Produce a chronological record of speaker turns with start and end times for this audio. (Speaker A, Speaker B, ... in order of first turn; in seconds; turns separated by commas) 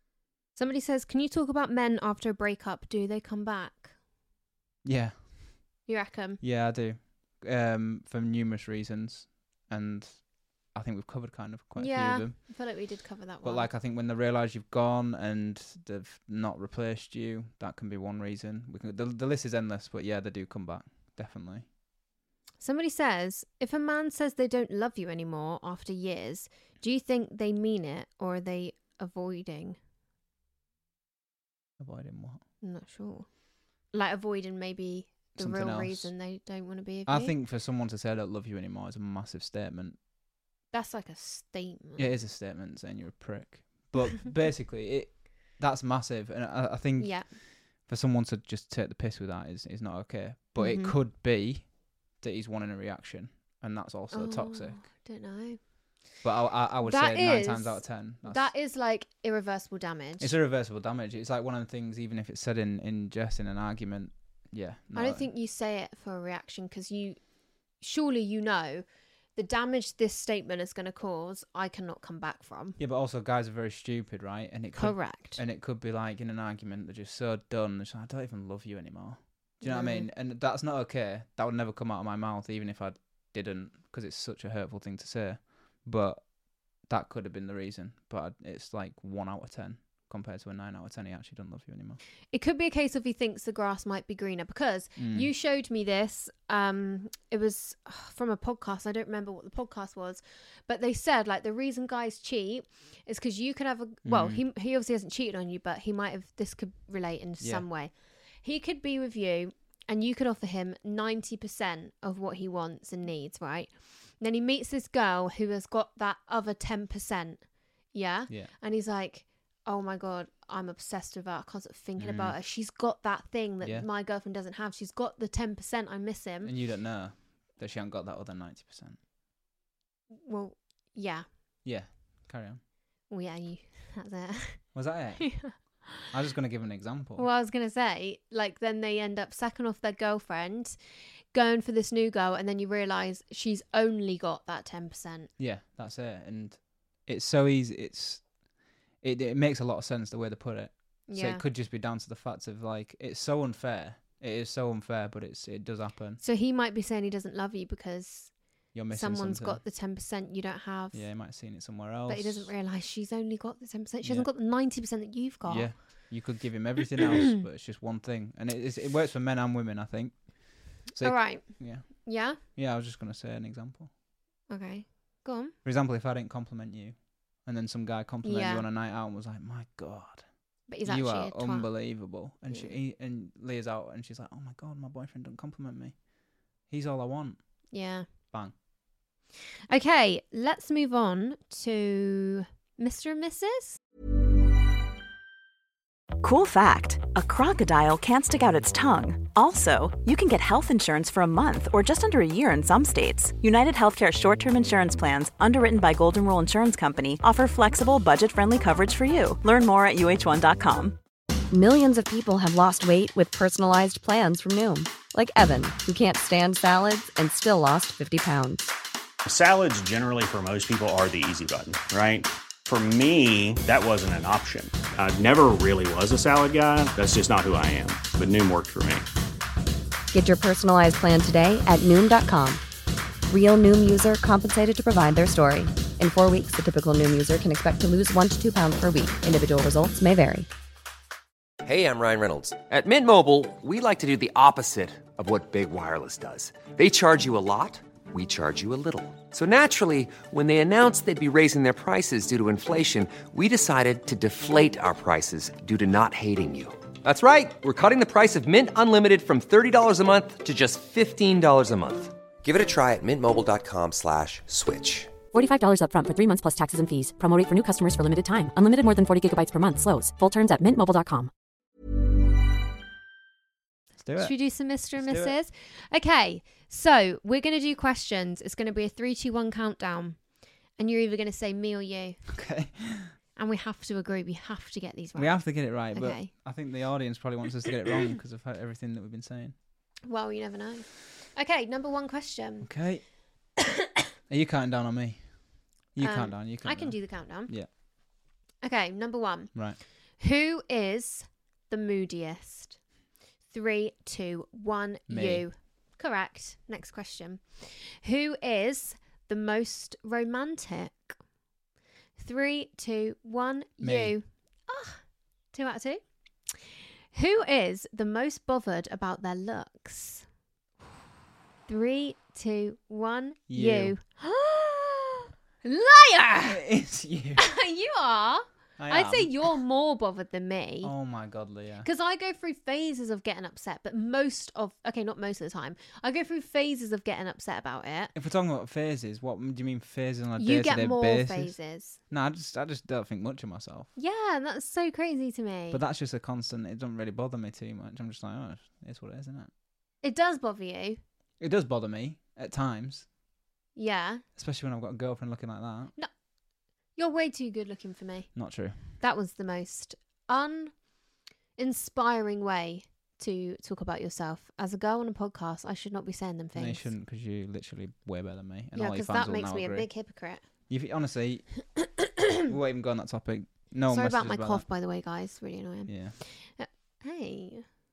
Speaker A: 0.6-4.0, Speaker B: 4.8-5.4, Speaker A: 5.9-6.4, Speaker B: 6.4-12.5, Speaker A: 11.8-13.7, Speaker B: 13.4-21.7, Speaker A: 22.6-29.8, Speaker B: 31.8-32.4, Speaker A: 32.6-33.3, Speaker A: 33.9-37.4, Speaker B: 35.4-36.1, Speaker B: 37.1-40.0, Speaker A: 40.7-42.1, Speaker B: 42.0-54.8, Speaker A: 47.0-47.3, Speaker A: 50.6-51.0, Speaker A: 54.1-55.6, Speaker B: 56.2-58.5, Speaker A: 56.8-60.3, Speaker B: 60.2-65.3, Speaker A: 65.0-67.2, Speaker A: 67.8-68.8, Speaker A: 69.4-72.8, Speaker B: 72.8-92.0, Speaker A: 74.8-75.4, Speaker A: 79.6-80.1, Speaker A: 92.3-126.5, Speaker B: 95.0-95.3, Speaker B: 104.0-104.4, Speaker B: 107.4-107.7, Speaker B: 122.0-122.4, Speaker B: 123.6-123.9, Speaker B: 126.4-129.0, Speaker A: 130.2-131.3, Speaker B: 131.7-132.6, Speaker A: 133.1-135.6, Speaker B: 134.7-137.3, Speaker A: 137.2-140.8, Speaker A: 141.3-145.3, Speaker B: 145.4-148.3, Speaker B: 149.0-156.2, Speaker A: 151.1-151.4, Speaker A: 156.2-158.3, Speaker B: 158.7-159.6, Speaker A: 158.9-161.1, Speaker B: 160.9-162.5, Speaker A: 162.1-165.9, Speaker B: 164.0-164.3, Speaker B: 165.5-173.9, Speaker A: 171.0-172.4, Speaker A: 174.5-175.5, Speaker B: 175.7-180.3, Speaker A: 178.2-178.7, Speaker A: 180.7-181.7, Speaker B: 180.8-186.0, Speaker B: 186.7-187.4, Speaker A: 187.7-188.1, Speaker A: 189.7-193.8, Speaker C: 196.2-211.0, Speaker D: 211.5-218.7, Speaker E: 219.2-229.1, Speaker D: 230.1-232.6, Speaker D: 233.3-240.5, Speaker F: 241.6-265.1, Speaker G: 265.3-271.3, Speaker B: 274.0-274.4, Speaker A: 274.2-280.2, Speaker B: 275.0-275.4, Speaker A: 280.8-282.2, Speaker B: 282.3-283.1, Speaker A: 283.4-286.3, Speaker B: 285.1-289.6, Speaker A: 290.1-292.7, Speaker B: 292.6-293.0, Speaker A: 293.6-293.9, Speaker B: 294.3-295.2, Speaker B: 295.9-297.7, Speaker A: 296.0-297.5, Speaker A: 298.6-299.6, Speaker A: 300.2-302.8, Speaker A: 303.5-311.2, Speaker B: 305.1-305.5, Speaker A: 312.2-315.0, Speaker B: 313.8-314.1, Speaker A: 315.5-316.6, Speaker A: 317.1-320.3, Speaker A: 321.7-326.6, Speaker B: 323.5-323.9, Speaker B: 326.4-327.5, Speaker A: 327.4-330.9, Speaker B: 328.8-329.5, Speaker B: 330.8-331.9, Speaker A: 331.8-338.1, Speaker B: 338.1-341.6, Speaker A: 340.4-342.0, Speaker B: 342.1-343.9, Speaker A: 344.0-345.8, Speaker B: 345.7-349.5, Speaker A: 350.0-351.0, Speaker B: 351.4-353.1, Speaker A: 353.8-354.2, Speaker B: 354.4-355.9, Speaker A: 357.0-358.3, Speaker B: 358.4-358.8, Speaker A: 359.0-360.7, Speaker A: 361.6-366.9, Speaker B: 366.6-369.9, Speaker A: 368.8-370.4, Speaker B: 370.7-371.5, Speaker A: 371.8-372.2, Speaker B: 372.4-374.6, Speaker A: 373.9-377.7, Speaker B: 375.9-376.2